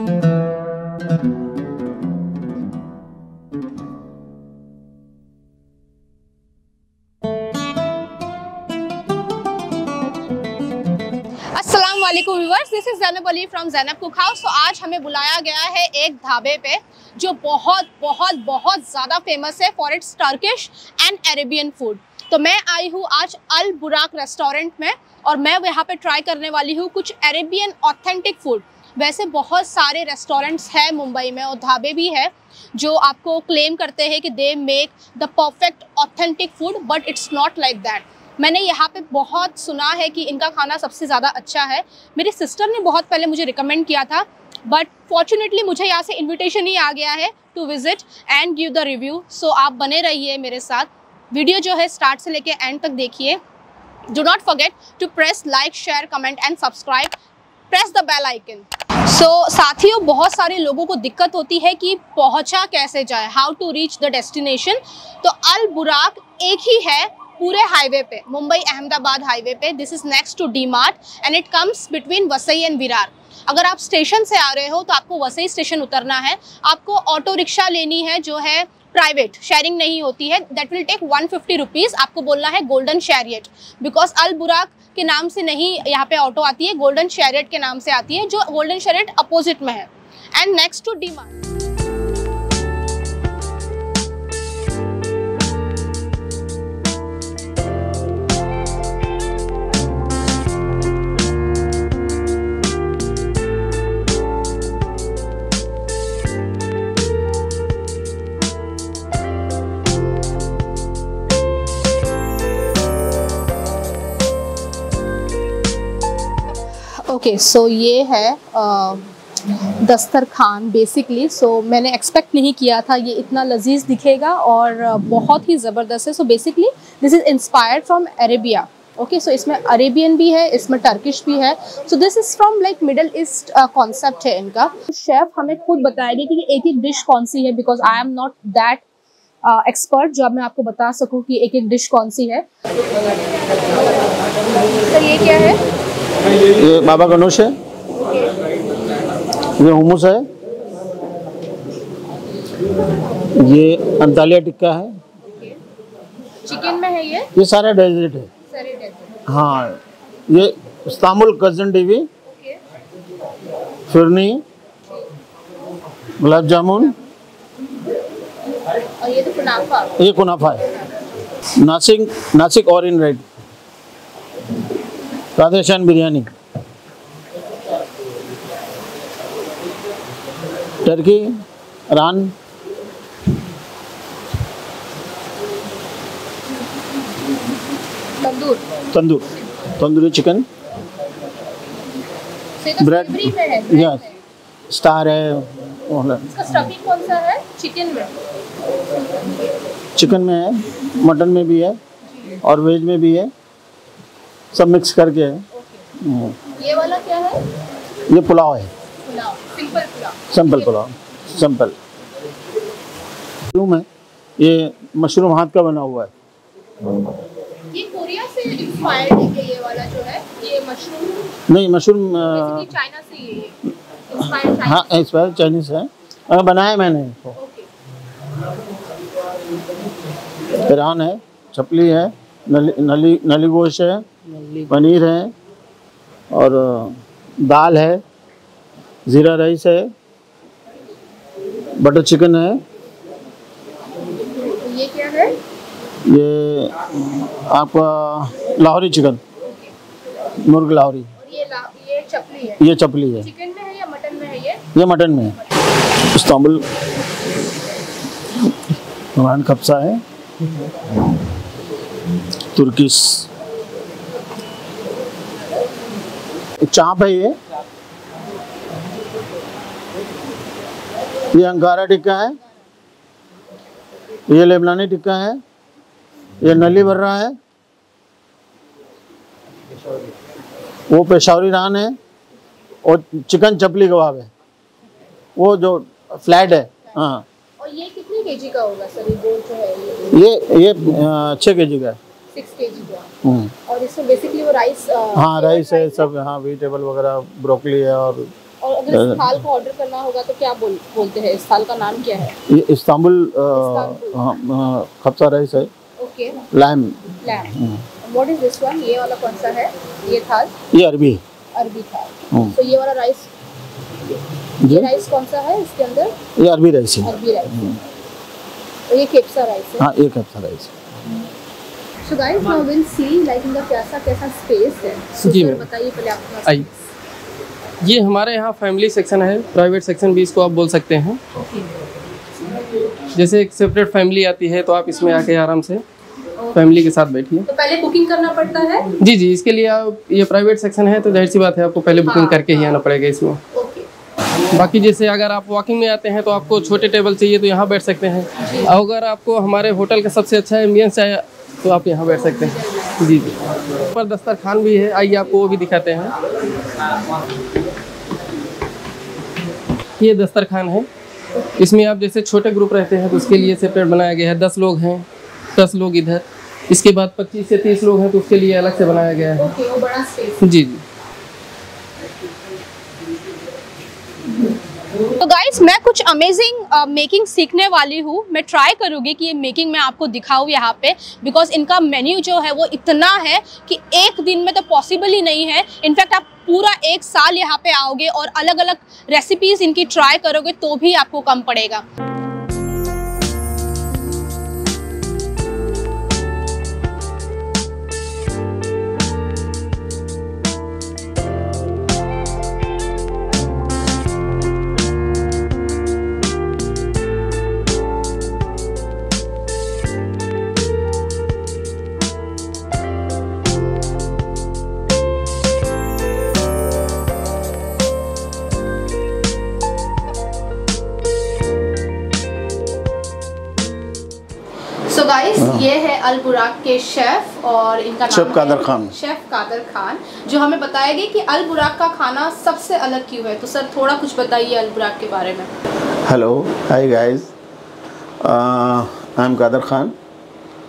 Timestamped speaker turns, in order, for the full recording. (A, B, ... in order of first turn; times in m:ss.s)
0:11.5-0:53.4 A
0:54.1-0:57.1 A
0:57.7-1:31.3 A
1:57.0-2:18.8 A
2:19.4-2:22.4 A
2:24.8-2:25.6 A
2:26.5-2:27.5 B
2:29.6-2:30.3 B
2:33.2-2:34.9 B
2:35.2-2:35.6 A
2:36.4-2:37.3 A
2:37.3-2:38.3 B
2:38.5-2:39.1 A
2:39.3-2:42.1 B
2:42.2-2:42.6 A
2:43.9-2:44.4 B
2:46.2-2:46.9 B
2:46.3-2:47.1 A
2:49.0-2:50.0 A
2:50.0-2:50.6 B
2:51.5-2:53.2 B
2:55.4-2:56.3 B
3:00.8-3:02.3 B
3:08.2-3:08.6 A
3:08.8-3:10.4 B
3:12.6-3:14.1 A
3:12.8-3:14.0 B
3:14.7-3:16.3 B
3:16.3-3:18.2 A
3:19.9-3:21.8 B
3:22.4-3:23.3 B
3:24.5-3:25.4 B
3:25.5-3:25.8 A
3:26.0-3:26.4 B
3:26.5-3:27.4 A
3:28.1-3:28.7 B
3:29.0-3:30.7 A
3:30.3-3:31.8 B
3:33.5-3:33.8 B
3:34.4-3:36.1 B
3:37.7-3:41.3 A
3:41.5-3:42.7 B
3:42.3-3:44.9 A
3:44.4-3:47.4 B
3:47.4-3:47.7 A
3:50.5-3:54.0 B
3:54.6-3:55.3 B
3:56.3-3:58.0 B
3:59.1-3:59.9 B
4:01.8-4:02.6 B
4:04.2-4:05.3 A
4:06.0-4:09.2 B
4:09.4-4:09.7 A
4:10.4-4:11.1 B
4:11.2-4:14.6 A
4:12.6-4:13.3 B
4:14.7-4:15.4 B
4:16.0-4:16.6 B
4:19.2-4:20.0 B
4:22.5-4:23.3 B
4:26.6-4:27.4 B
4:31.3-4:32.4 B
4:34.3-4:35.4 B
4:36.4-4:37.4 B
4:40.9-4:42.0 B
4:42.8-4:44.3 B
4:45.4-4:47.2 B
4:47.6-4:50.2 A
4:50.1-4:52.0 B
4:52.3-4:53.1 A
4:53.2-4:53.5 B
4:53.6-4:56.1 A
4:55.1-4:58.3 B
4:58.6-5:02.4 A
4:58.9-4:59.3 B
5:02.5-5:05.7 B
5:03.5-5:04.3 A
5:06.0-5:06.4 A
5:06.5-5:07.8 B
5:07.2-5:10.5 A
5:10.7-5:11.2 B
5:11.5-5:13.3 A
5:14.6-5:14.9 B
5:14.7-5:16.1 A
5:16.4-5:17.8 B
5:17.0-5:17.8 A
5:18.9-5:19.9 A
5:19.8-5:20.7 B
5:22.0-5:26.7 A
5:25.2-5:25.6 C
5:27.8-5:31.2 C
5:33.1-5:35.8 C
5:36.5-5:37.4 C
5:37.5-5:38.8 A
5:39.0-5:43.4 C
5:42.0-5:42.5 A
5:43.5-5:43.9 A
5:44.5-5:53.3 C
5:48.4-5:48.7 A
5:53.9-5:56.1 C
6:00.0-6:00.9 C
6:01.6-6:05.0 C
6:05.6-6:09.5 C
6:09.4-6:10.4 A
6:10.4-6:10.8 C
6:15.0-6:31.8 A
7:04.8-7:15.5 A
7:05.4-7:05.7 B
7:08.1-7:08.9 B
7:16.0-7:17.3 B
7:18.2-7:19.9 B